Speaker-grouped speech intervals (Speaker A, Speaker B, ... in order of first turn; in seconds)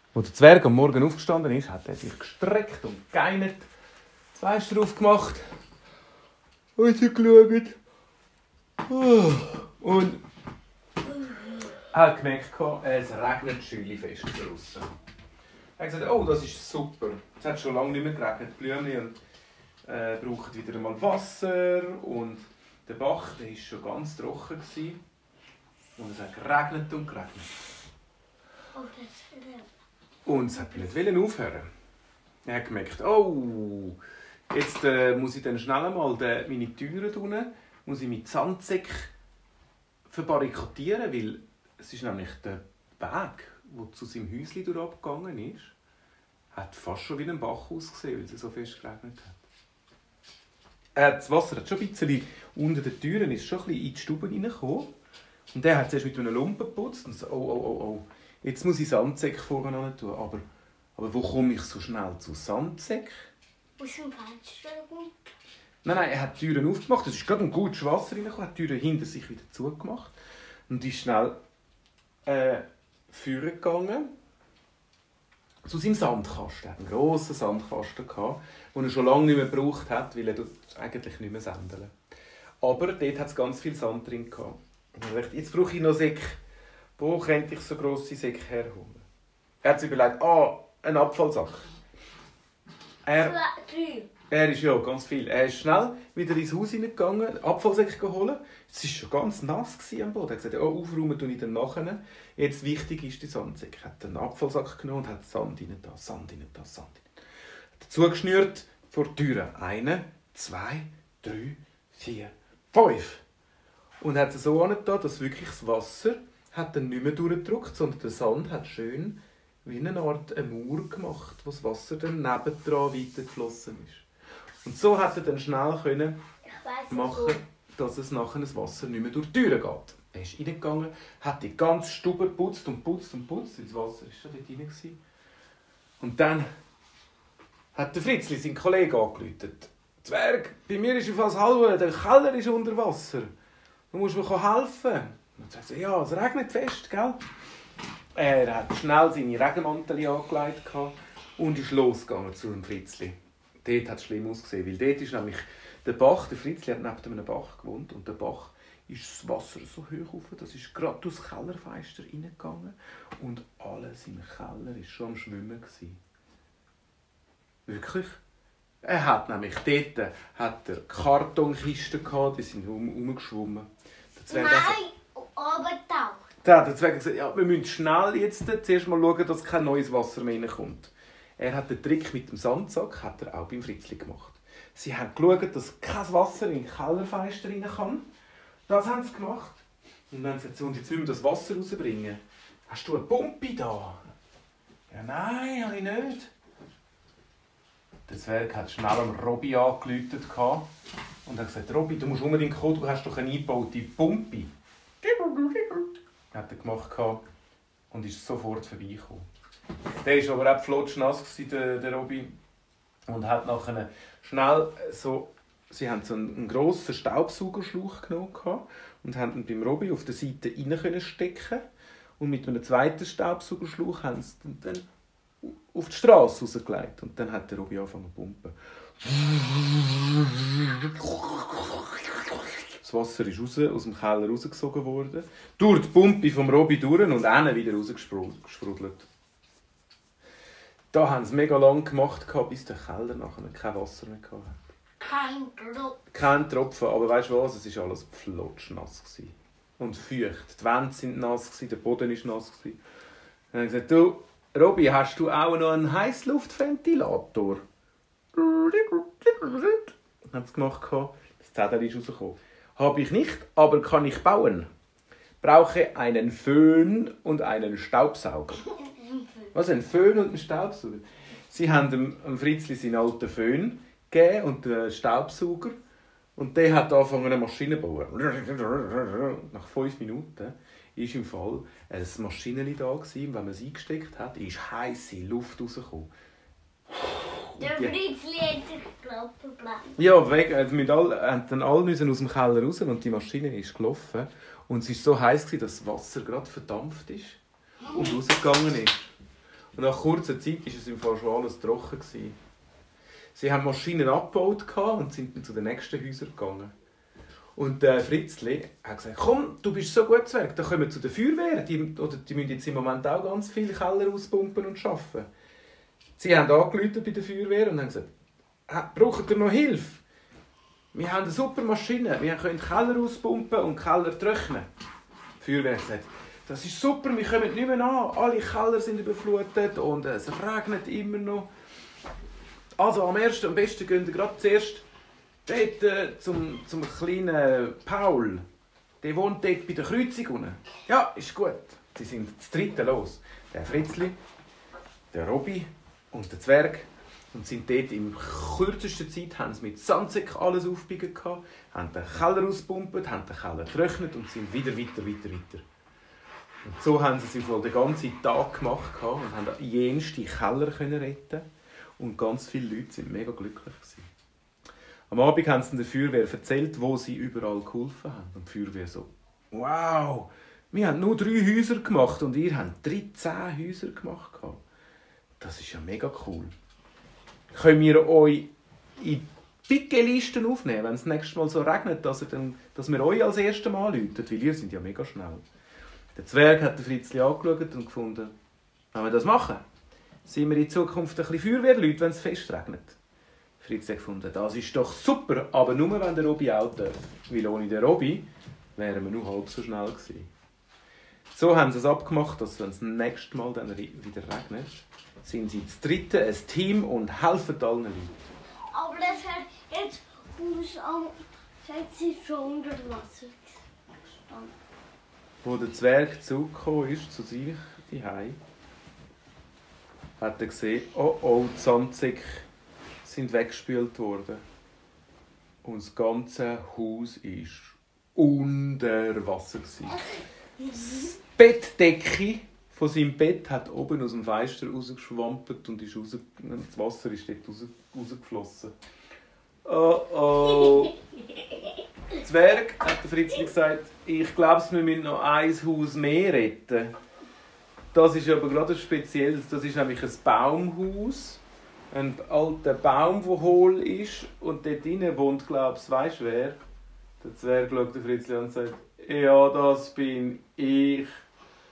Speaker A: 0.1-3.7, 4.4-5.4, 6.8-7.8, 8.9-10.2, 11.9-14.9, 15.8-19.2, 19.9-25.0, 26.0-27.5, 30.3-31.7, 32.5-34.0, 34.5-39.1, 40.1-45.7, 46.5-49.4, 51.0-54.9, 55.5-60.4, 61.0-63.2, 65.8-70.2, 70.7-71.4, 72.3-74.1, 75.7-81.9, 82.6-86.4, 87.0-89.0, 89.6-91.7, 93.0-93.4, 94.3-107.1, 107.8-113.2, 114.0-124.0, 124.7-126.2, 126.9-135.0, 136.0-136.5, 137.8-143.3, 143.9-147.2, 148.2-166.0, 167.7-168.2, 168.8-174.8, 176.4-188.1, 188.7-194.0, 194.9-196.3, 198.1-200.7, 201.3-204.5, 205.0-207.2, 207.9-209.3, 210.0-212.4, 213.1-221.6, 222.2-224.9, 225.4-239.1, 240.9-244.7, 246.1-252.8, 253.5-257.6, 258.3-264.7, 265.4-268.7, 269.5-275.8, 276.4-286.1, 287.1-287.9, 290.0-297.4, 297.9-298.9, 299.8-302.4, 303.3-306.7, 307.6-315.3, 316.2-318.1, 318.7-320.0, 320.9-324.7, 325.4-331.5, 332.8-334.8, 335.5-338.4, 339.0-344.2, 345.1-355.6, 356.6-361.4, 362.0-364.1, 365.1-374.6, 375.4-376.5, 377.5-385.4, 386.1-388.3, 388.9-389.6, 390.2-393.0, 393.6-400.3, 401.3-408.3, 415.4-418.4, 420.2-422.4, 423.0-424.4, 425.6-430.1, 430.8-438.7, 439.6-441.0, 442.1-446.9, 447.9-456.6, 457.2-461.1
Speaker B: 28.7-29.7, 63.8-65.1, 93.1-94.1, 126.5-127.4, 174.3-176.2, 245.0-246.0, 287.6-290.0, 408.7-414.6, 430.6-431.0